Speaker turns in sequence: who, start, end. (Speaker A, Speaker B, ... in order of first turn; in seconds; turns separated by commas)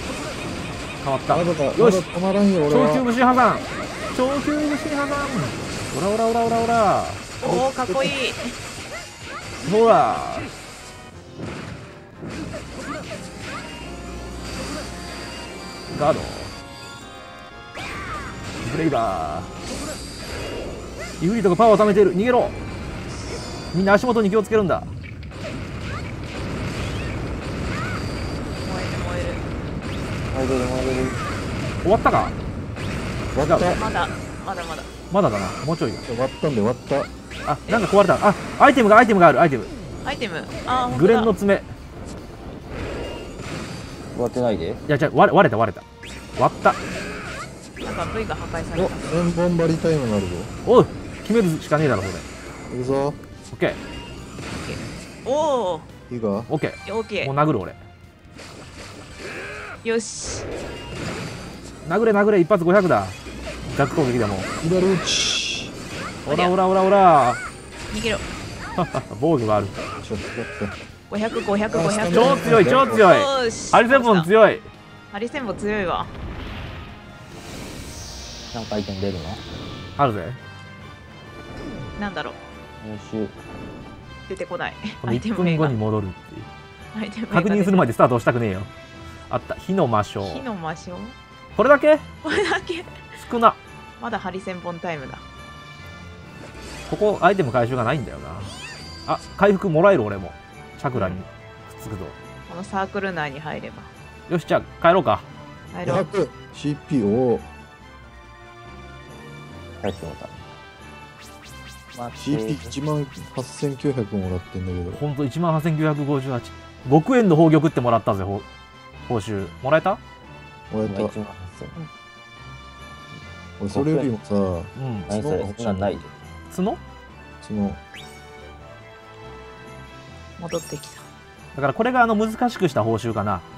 Speaker A: 1.0-2.1, Speaker B: 1.3-3.1, Speaker A: 2.7-7.3, Speaker C: 7.4-8.6, Speaker B: 7.4-8.1, Speaker A: 9.6-10.5, Speaker A: 15.9-16.6, Speaker A: 18.6-19.5, Speaker A: 21.2-22.6, Speaker A: 23.7-24.9, Speaker C: 28.6-29.5, Speaker D: 30.3-31.2, Speaker A: 31.8-32.4, Speaker B: 33.3-33.8, Speaker A: 33.4-33.8, Speaker C: 33.8-34.9, Speaker A: 35.1-36.1, Speaker B: 36.0-37.1, Speaker A: 37.5-39.7, Speaker C: 40.0-41.3, Speaker A: 40.9-41.7, Speaker D: 44.1-44.8, Speaker A: 44.9-45.9, Speaker A: 46.4-46.8, Speaker C: 47.8-49.1, Speaker B: 48.8-50.5, Speaker A: 50.6-52.3, Speaker B: 52.7-53.2, Speaker A: 53.5-53.8, Speaker C: 54.6-55.9, Speaker B: 56.1-56.5, Speaker A: 56.5-57.8, Speaker C: 56.9-57.3, Speaker C: 59.8-60.5, Speaker A: 61.8-64.5, Speaker B: 64.6-65.7, Speaker A: 66.2-67.4, Speaker C: 66.3-66.6, Speaker C: 67.9-68.2, Speaker A: 68.8-69.8, Speaker B: 70.0-70.8, Speaker C: 71.1-74.3, Speaker B: 71.7-73.1, Speaker A: 72.1-74.7, Speaker C: 75.1-76.1, Speaker D: 78.5-79.4, Speaker A: 80.0-80.4, Speaker C: 82.0-82.4, Speaker D: 82.8-83.4, Speaker C: 84.3-85.8, Speaker A: 85.0-86.5, Speaker C: 86.9-87.9, Speaker A: 87.3-88.7, Speaker A: 89.3-90.5, Speaker C: 90.2-91.2, Speaker A: 91.6-92.1, Speaker C: 92.2-93.0, Speaker A: 93.2-93.6, Speaker C: 94.0-95.2, Speaker A: 96.9-102.2, Speaker C: 101.0-101.2, Speaker C: 102.5-103.9, Speaker A: 104.3-105.3, Speaker C: 105.7-106.1, Speaker B: 105.8-107.5, Speaker D: 109.8-110.5, Speaker D: 111.9-112.8, Speaker B: 112.2-115.0, Speaker A: 114.9-118.5, Speaker A: 119.1-120.0, Speaker B: 120.7-121.1, Speaker D: 120.8-121.8, Speaker B: 123.6-126.0, Speaker D: 123.7-124.1, Speaker A: 124.8-125.1, Speaker D: 125.1-126.1, Speaker A: 126.5-126.8, Speaker B: 127.4-127.8, Speaker C: 130.4-131.1, Speaker A: 131.5-133.4